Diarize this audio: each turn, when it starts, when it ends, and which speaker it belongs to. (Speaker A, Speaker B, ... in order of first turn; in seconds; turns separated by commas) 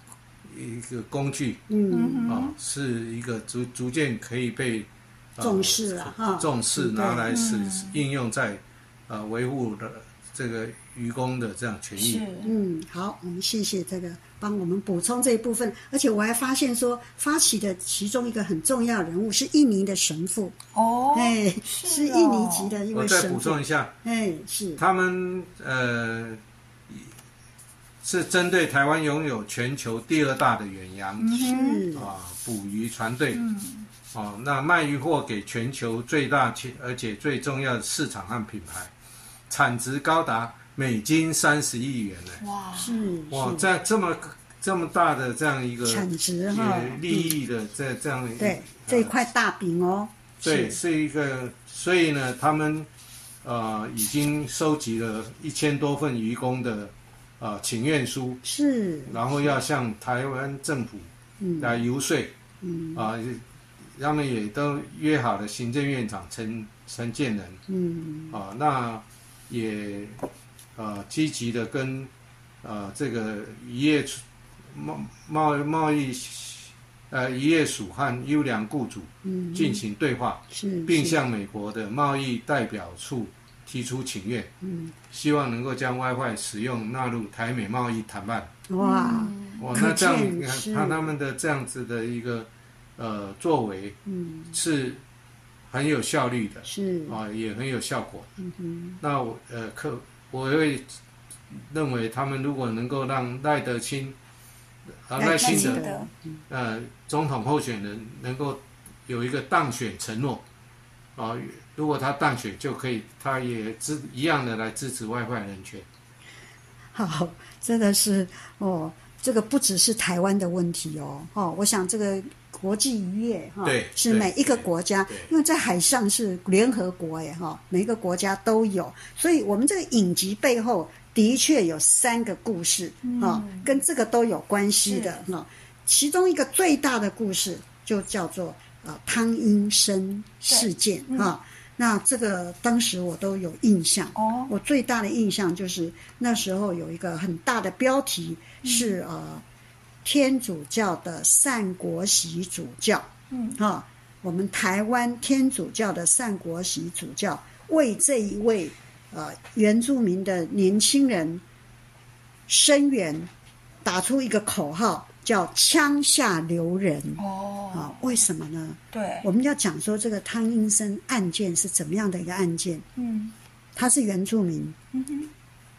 Speaker A: 0.5-1.6, Speaker B: 1.7-2.4, Speaker C: 1.9-2.5, Speaker A: 2.2-12.2, Speaker B: 5.4-7.5, Speaker C: 7.3-8.0, Speaker C: 11.9-12.5, Speaker B: 12.4-20.6, Speaker C: 20.7-22.8, Speaker B: 21.1-24.8, Speaker A: 22.9-23.9, Speaker A: 24.8-27.1, Speaker A: 28.0-31.4, Speaker C: 31.2-31.9, Speaker B: 31.3-32.1, Speaker A: 31.9-33.4, Speaker C: 33.3-33.9, Speaker A: 34.1-38.9, Speaker A: 39.5-42.4, Speaker C: 42.4-43.1, Speaker B: 42.7-43.7, Speaker A: 43.3-49.1, Speaker B: 45.8-47.3, Speaker B: 48.4-50.8, Speaker A: 50.4-52.9, Speaker A: 53.4-58.4, Speaker B: 58.4-59.5, Speaker A: 59.1-62.3, Speaker B: 61.4-61.8, Speaker B: 62.6-63.0, Speaker A: 62.9-63.4, Speaker A: 63.9-67.6, Speaker B: 67.7-68.4, Speaker A: 68.3-70.2, Speaker A: 70.8-72.1, Speaker A: 72.6-84.5, Speaker B: 79.2-79.8, Speaker B: 80.5-81.2, Speaker B: 84.6-84.9, Speaker A: 85.1-88.5, Speaker B: 88.7-91.1, Speaker C: 88.8-89.6, Speaker A: 89.6-94.0, Speaker B: 94.0-94.6, Speaker A: 94.5-95.0, Speaker A: 95.7-98.3, Speaker B: 96.7-97.2, Speaker B: 98.4-99.0, Speaker A: 99.0-100.9, Speaker A: 101.5-104.2, Speaker A: 105.0-105.8, Speaker B: 105.2-106.4, Speaker C: 105.4-106.1, Speaker A: 106.5-110.4, Speaker A: 111.2-115.8, Speaker B: 116.9-149.4, Speaker A: 123.6-125.3, Speaker C: 133.0-133.8, Speaker C: 134.8-135.1, Speaker C: 140.4-141.3, Speaker C: 144.2-144.5, Speaker C: 148.6-148.9, Speaker B: 150.0-161.4, Speaker C: 153.3-153.6, Speaker B: 162.5-163.3, Speaker B: 163.8-172.8, Speaker C: 167.2-168.2, Speaker C: 168.9-169.3, Speaker C: 173.0-173.3, Speaker B: 173.7-174.8, Speaker C: 174.9-175.3